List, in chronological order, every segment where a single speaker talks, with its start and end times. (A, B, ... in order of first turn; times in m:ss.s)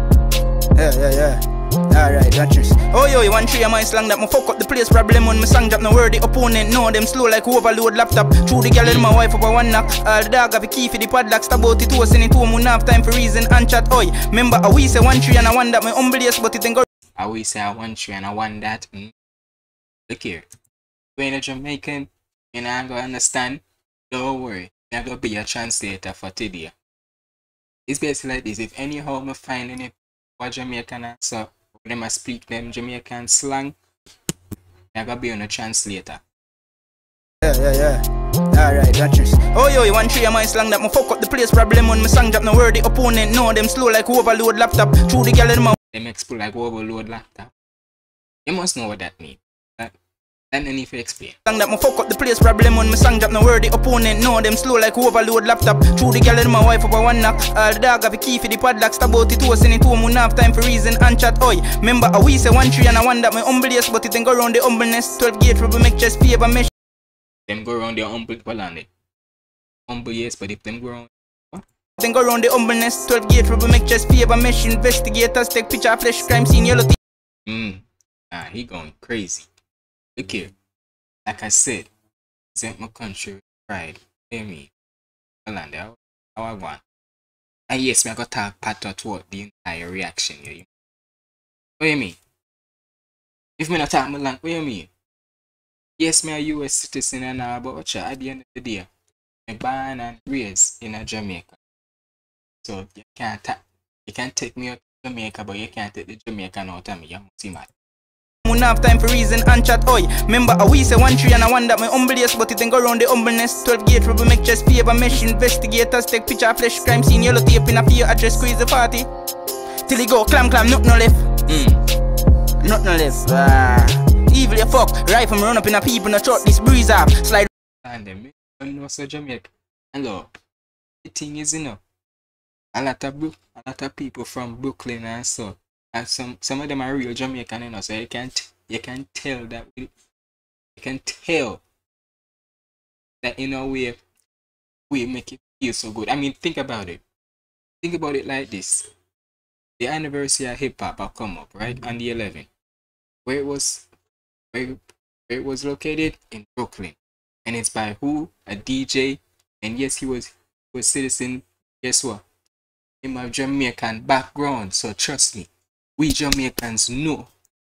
0:00.8-0:16.9 A
0:17.2-0:19.1 B
0:20.1-0:20.5 B
0:21.2-0:26.8 B
0:27.9-0:33.8 B
0:34.9-0:36.2 B
0:37.4-0:45.8 A
0:45.9-0:47.5 B
0:48.4-0:50.0 B
0:50.5-0:51.4 B
0:51.5-1:06.7 A
1:07.5-1:08.9 B
1:09.9-1:11.6 B
1:12.0-1:17.0 A
1:17.5-1:19.5 B
1:20.2-1:20.5 B
1:21.3-1:21.9 B
1:22.5-1:24.7 B
1:25.5-1:26.8 B
1:27.7-1:30.7 B
1:31.8-1:32.2 B
1:33.6-1:34.9 B
1:36.0-1:38.9 B
1:39.5-1:41.6 B
1:42.6-1:47.7 B
1:48.5-1:59.1 A
1:59.9-2:01.3 A
2:01.5-2:01.8 B
2:02.6-2:07.5 A
2:07.8-2:10.3 B
2:11.0-2:11.8 B
2:12.7-2:19.9 B
2:20.8-2:21.6 B
2:23.2-2:24.0 B
2:24.9-2:27.0 B
2:27.8-2:28.9 B
2:29.8-2:32.5 B
2:33.2-2:33.9 B
2:34.5-2:42.2 B
2:43.0-2:47.3 B